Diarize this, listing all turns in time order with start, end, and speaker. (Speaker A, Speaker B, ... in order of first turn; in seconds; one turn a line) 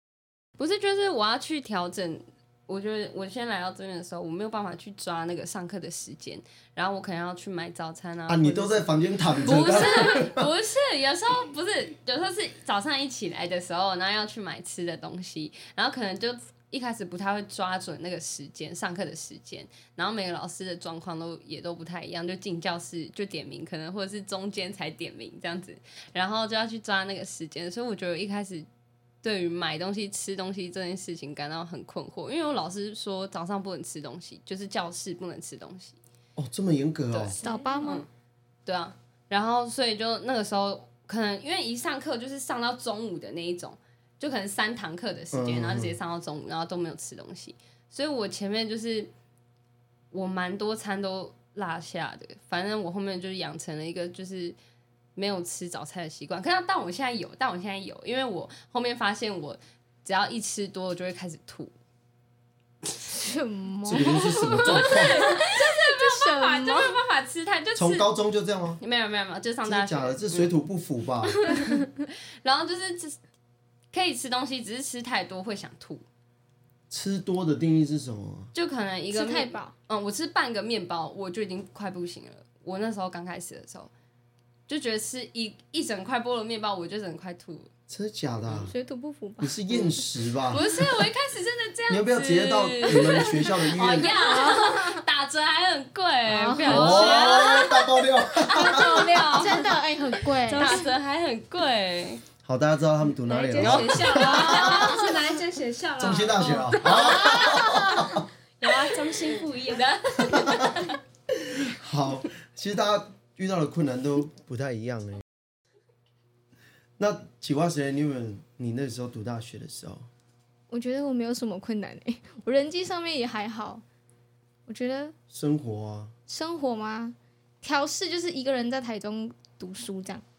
Speaker A: 0.6-8.8
Speaker B: 8.3-10.5
Speaker A: 9.4-28.7
Speaker A: 29.2-36.0
Speaker B: 36.4-37.4
Speaker A: 37.1-38.1
Speaker C: 37.3-37.9
Speaker D: 37.4-38.0
Speaker A: 38.6-49.1
Speaker B: 45.3-46.0
Speaker A: 50.1-54.6
Speaker A: 55.1-61.7
Speaker D: 63.1-67.0
Speaker B: 63.8-65.2
Speaker A: 64.4-68.1
Speaker B: 67.7-68.8
Speaker A: 68.8-70.5
Speaker B: 69.6-71.6
Speaker A: 71.4-73.2
Speaker A: 73.9-76.0
Speaker B: 76.9-78.5
Speaker A: 78.5-83.9
Speaker D: 79.1-79.7
Speaker A: 84.7-87.7
Speaker B: 87.9-88.7
Speaker D: 88.6-89.6
Speaker B: 89.4-90.6
Speaker A: 89.7-97.9
Speaker B: 91.9-94.1
Speaker D: 93.9-95.0
Speaker D: 96.3-97.6
Speaker B: 96.7-99.0
Speaker C: 98.5-99.7
Speaker A: 98.5-99.7
Speaker D: 99.2-100.8
Speaker A: 100.4-102.2
Speaker C: 100.5-100.9
Speaker B: 102.4-105.0
Speaker C: 103.2-107.4
Speaker A: 103.5-105.2
Speaker B: 106.0-108.3
Speaker A: 106.9-107.3
Speaker D: 106.9-108.0
Speaker C: 108.6-109.9
Speaker A: 109.2-111.0
Speaker B: 110.2-110.8
Speaker B: 111.4-115.2
Speaker B: 117.0-120.1
Speaker D: 120.7-123.8
Speaker D: 124.7-125.1
Speaker B: 125.3-126.1
Speaker D: 126.3-130.2